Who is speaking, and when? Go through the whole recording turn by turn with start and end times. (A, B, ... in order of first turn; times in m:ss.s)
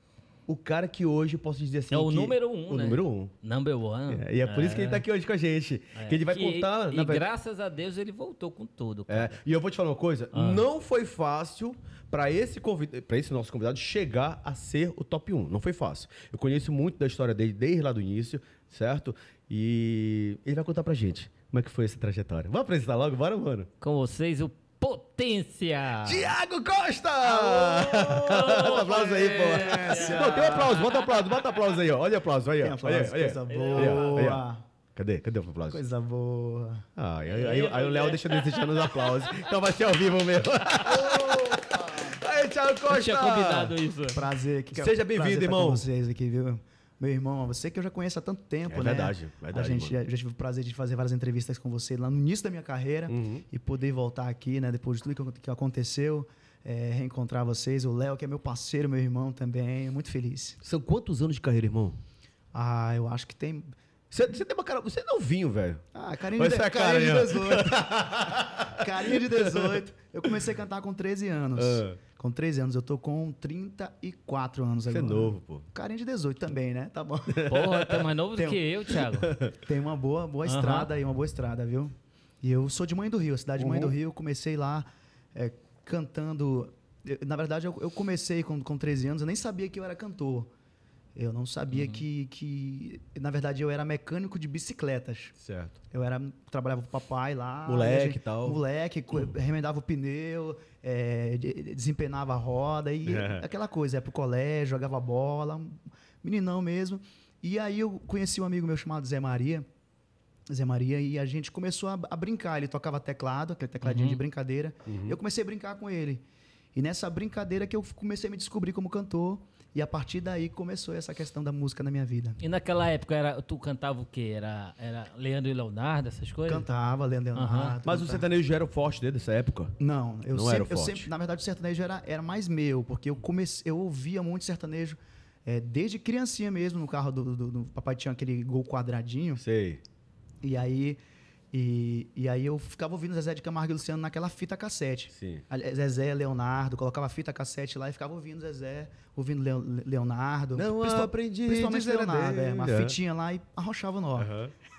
0:00.5-0:03.3 A
0:01.9-0:05.0 B
0:04.1-0:07.2 A
0:05.9-0:09.4 B
0:09.1-0:23.7 A
0:10.3-0:10.6 B
0:23.8-0:26.3 B
0:26.0-0:34.4 A
0:27.2-0:30.8 C
0:28.1-0:31.5 B
0:32.6-0:34.6 C
0:33.5-0:34.4 B
0:34.9-0:35.8 A
0:35.7-0:36.8 C
0:37.0-0:43.8 A
0:37.2-0:39.6 B
0:41.0-0:42.1 C
0:42.8-0:44.3 B
0:44.1-1:00.6 C
0:44.7-0:45.9 A
0:48.7-0:50.0 A
0:53.1-0:53.4 A
1:00.6-1:02.0 A
1:02.5-1:03.7 C
1:04.1-1:05.8 A
1:05.9-1:17.7 C
1:06.3-1:09.8 A
1:11.6-1:12.0 A
1:14.9-1:15.6 A
1:17.3-1:18.1 A
1:17.5-1:19.4 B
1:18.3-1:18.6 C
1:19.1-1:19.5 A
1:19.5-1:30.5 C
1:20.4-1:20.9 B
1:23.6-1:23.9 A
1:31.1-1:35.3 C
1:31.7-1:32.0 B
1:35.4-1:35.8 A
1:35.9-1:49.6 C
1:37.6-1:38.6 A
1:43.0-1:43.4 A
1:50.5-1:56.2 C
1:53.8-1:54.2 B
1:54.8-1:55.2 A
1:56.7-2:02.4 C
2:02.4-2:06.7 B
2:06.4-2:08.2 C
2:07.3-2:07.8 B
2:07.8-2:09.8 A
2:09.8-2:19.4 C
2:10.3-2:11.1 A
2:19.4-2:19.8 A
2:20.4-2:21.0 C
2:21.5-2:34.3 C
2:25.1-2:25.4 A
2:30.5-2:33.0 A
2:34.2-2:34.5 A